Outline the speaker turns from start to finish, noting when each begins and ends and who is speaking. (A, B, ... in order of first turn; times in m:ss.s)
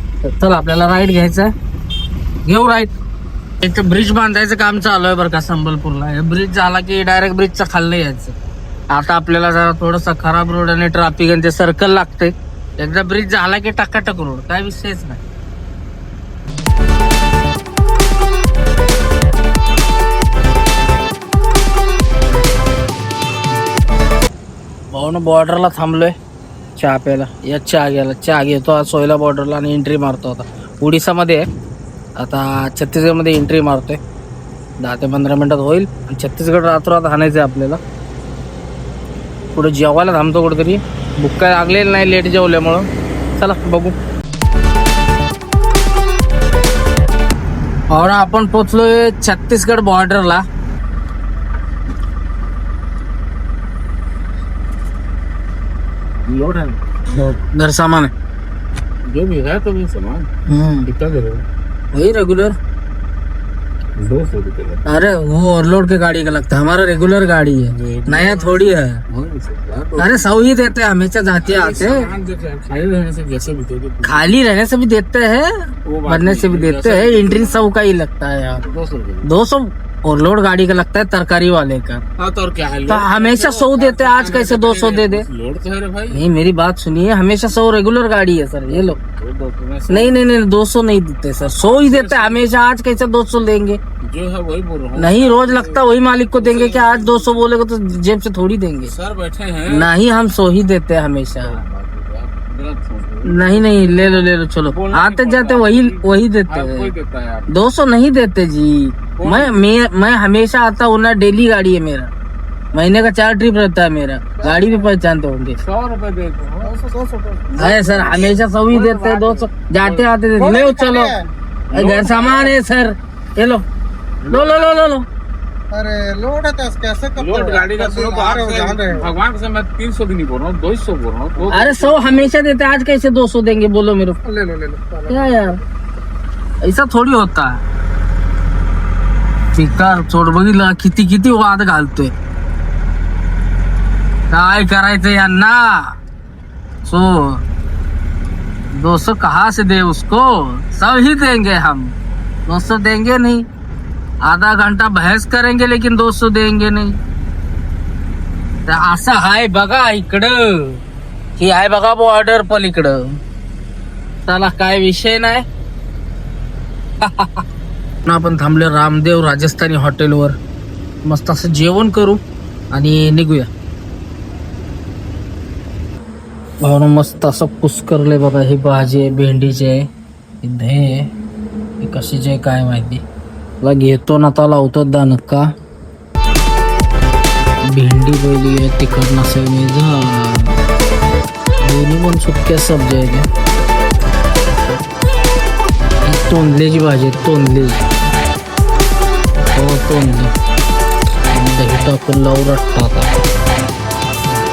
0:00.2-0:01.5 A
0:02.4-0:02.9 A
0:03.6-0:08.4 A
0:08.9-0:15.2 A
0:24.9-0:26.2 A
0:26.8-0:31.5 A
0:32.2-0:34.0 A
0:34.8-0:37.8 A
0:39.5-0:42.9 A
0:43.4-0:43.9 A
0:47.9-0:50.5 A
0:56.3-0:57.3 B
0:57.2-0:58.1 A
0:59.1-1:01.4 B
1:00.5-1:00.9 A
1:01.9-1:02.6 A
1:04.0-1:04.8 B
1:04.8-1:09.0 A
1:07.8-1:10.3 B
1:10.0-1:12.1 A
1:11.4-1:14.3 B
1:14.0-1:18.7 A
1:15.8-1:17.6 B
1:18.7-1:19.3 B
1:19.2-1:22.0 A
1:22.2-1:26.2 B
1:22.9-1:25.3 A
1:26.1-1:29.0 A
1:29.1-1:30.2 B
1:29.9-1:33.8 A
1:31.5-1:32.4 B
1:34.0-1:35.8 B
1:35.0-1:38.9 A
1:36.4-1:37.3 B
1:38.9-1:39.9 B
1:39.7-1:41.6 A
1:41.5-1:47.5 B
1:43.2-1:46.9 A
1:47.5-1:52.1 A
1:49.2-1:49.6 B
1:52.7-1:55.6 A
1:55.6-2:00.0 B
1:57.6-2:03.6 A
2:01.7-2:02.5 B
2:04.2-2:05.1 A
2:04.3-2:04.6 B
2:05.7-2:07.2 C
2:07.1-2:12.2 B
2:08.1-2:08.8 C
2:11.5-2:15.6 A
2:16.6-2:17.6 A
2:19.6-2:22.1 A
2:24.3-2:26.0 A
2:26.8-2:27.4 A
2:28.7-2:32.0 A
2:32.5-2:33.4 A
2:34.2-2:37.0 A
2:38.7-2:40.8 A
2:41.4-2:43.2 A
2:44.3-2:45.4 A
2:47.0-2:47.4 A
2:48.0-2:50.4 A
2:51.0-2:52.2 A
2:52.7-2:53.5 A
2:56.6-2:59.9 A
3:00.4-3:01.1 A
3:01.8-3:03.0 A
3:03.6-3:05.5 A
3:07.7-3:10.6 A
3:11.6-3:13.3 A
3:16.0-3:17.8 A
3:19.5-3:20.3 A
3:21.3-3:23.1 A